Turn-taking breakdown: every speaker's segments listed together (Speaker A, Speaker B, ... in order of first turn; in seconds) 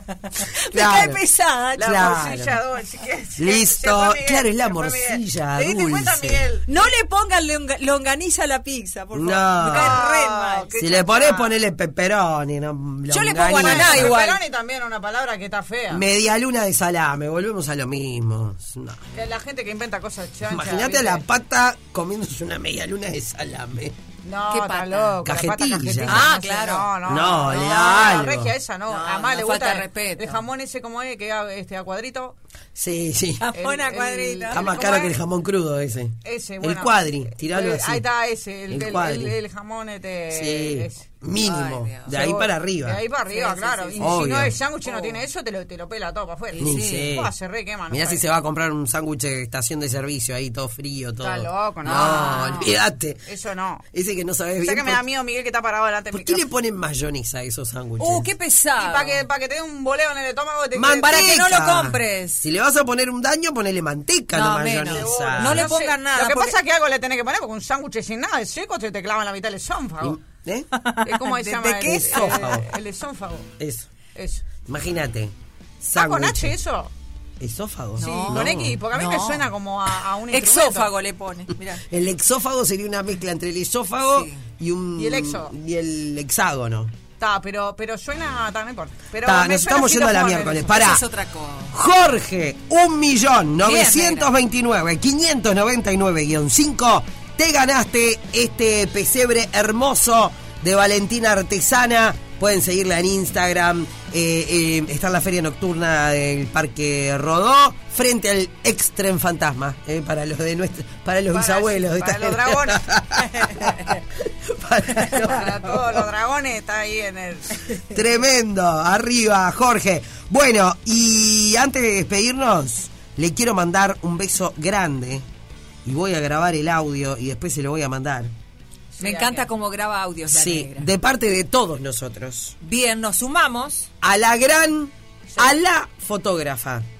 Speaker A: 0.3-2.1, 6.7-11.0, 13.1-14.4, 24.5-25.2, 26.1-27.0, 28.9-30.4, 33.4-35.1, 41.4-42.2, 43.3-44.3, 44.9-45.2, 46.5-47.2, 51.9-52.7, 58.0-59.2, 61.0-62.4, 64.3-66.5, 70.7-72.6, 78.0-79.5, 80.3-81.8, 84.1-84.4, 90.7-91.7, 93.6-94.3, 129.0-130.9, 132.6-133.9
Speaker B: 0.7-1.2, 1.8-2.5, 3.4-6.4, 9.1-10.0, 10.8-14.2, 15.9-19.0, 20.5-23.9, 25.2-26.3, 27.1-28.5, 32.7-33.5, 34.5-38.0, 38.7-39.4, 40.3-43.0, 44.0-44.5, 46.6-47.3, 47.9-53.2, 53.9-55.0, 56.1-58.3, 60.7-65.7, 70.0-70.7, 72.0-72.6, 73.6-73.9, 74.6-76.5, 77.4-78.8, 81.9-86.9, 89.2-91.0, 91.7-116.0, 117.9-125.2, 125.8-128.3, 130.3-132.5, 134.0-136.8
Speaker C: 1.8-6.7, 9.6-11.5, 13.5-16.0, 19.1-21.2, 24.2-32.4, 33.5-35.1, 36.2-41.1, 42.1-48.2, 51.2-52.7, 53.2-53.8, 54.6-56.4, 58.8-61.4, 64.8-70.2, 71.0-73.5, 74.1-74.4, 75.9-76.9, 78.0-80.9, 85.0-85.5, 87.2-90.7, 111.3-112.8, 115.2-117.6, 128.9-129.4